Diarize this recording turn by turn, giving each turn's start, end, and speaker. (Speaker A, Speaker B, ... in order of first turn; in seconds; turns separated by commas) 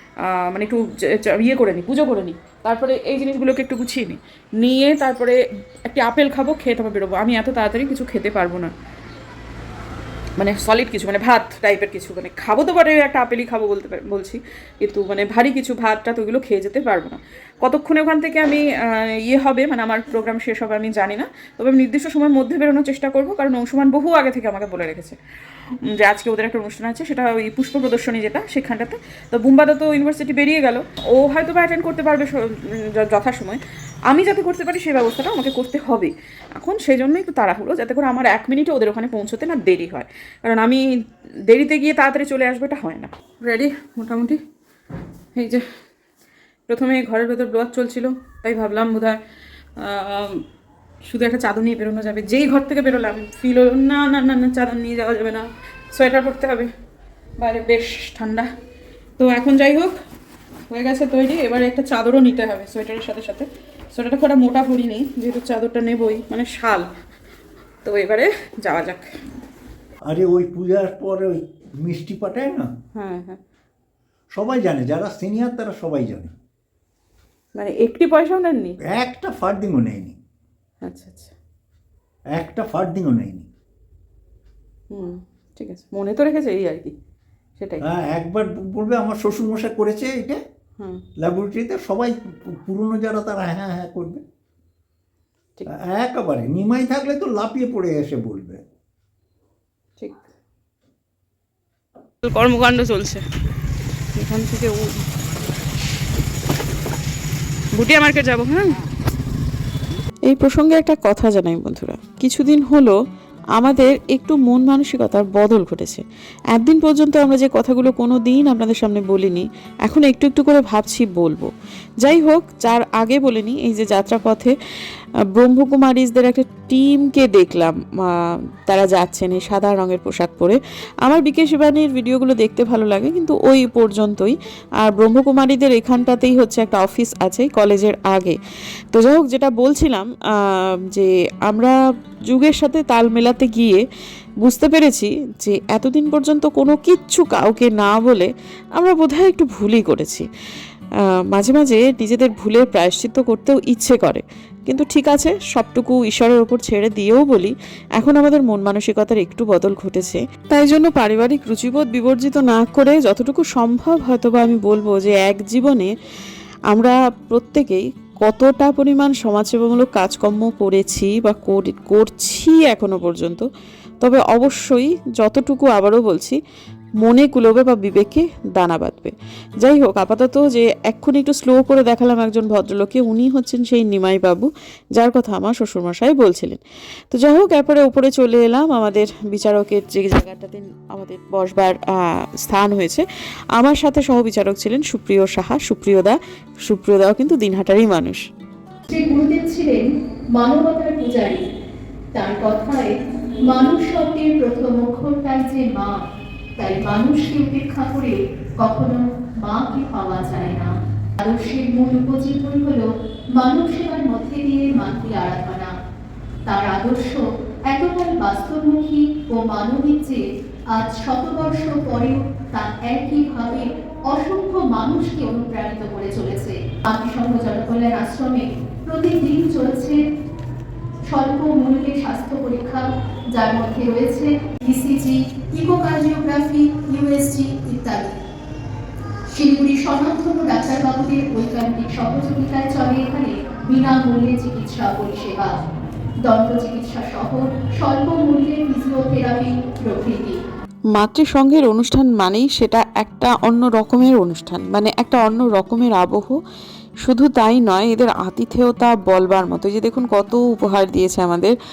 Speaker A: 0.2-8.7, Speaker A: 10.4-25.2, Speaker A: 25.8-40.8, Speaker A: 41.5-44.4, Speaker A: 45.4-45.6, Speaker A: 46.7-49.2, Speaker A: 49.8-50.4, Speaker A: 51.0-56.7, Speaker A: 57.4-58.5, Speaker A: 59.2-59.9, Speaker A: 60.7-66.9, Speaker A: 67.8-69.1, Speaker B: 70.1-72.7, Speaker A: 72.9-73.4, Speaker B: 74.3-76.3, Speaker A: 77.5-78.8, Speaker B: 78.9-80.2, Speaker A: 80.8-81.3, Speaker B: 82.3-83.5, Speaker A: 84.9-86.9, Speaker A: 87.6-87.8, Speaker B: 87.8-90.4, Speaker B: 91.2-94.2, Speaker B: 95.7-98.6, Speaker A: 100.0-100.3, Speaker A: 102.2-103.2, Speaker A: 104.1-104.9, Speaker A: 107.7-108.8, Speaker C: 110.3-112.9, Speaker C: 113.5-121.5, Speaker C: 122.0-124.5, Speaker C: 125.3-138.4, Speaker C: 138.9-141.7, Speaker C: 142.3-143.8, Speaker C: 144.4-150.2, Speaker C: 151.3-165.9, Speaker C: 166.7-173.4, Speaker C: 174.0-176.4, Speaker C: 177.0-186.6, Speaker C: 187.1-193.0, Speaker C: 193.6-198.2, Speaker D: 198.9-201.4, Speaker D: 202.1-202.9, Speaker D: 203.5-205.9, Speaker D: 206.6-210.7, Speaker D: 211.2-215.7, Speaker D: 216.4-220.2, Speaker D: 220.7-230.0, Speaker D: 231.1-238.1, Speaker D: 239.3-245.5, Speaker D: 246.3-250.4, Speaker C: 250.9-256.4, Speaker C: 257.0-261.5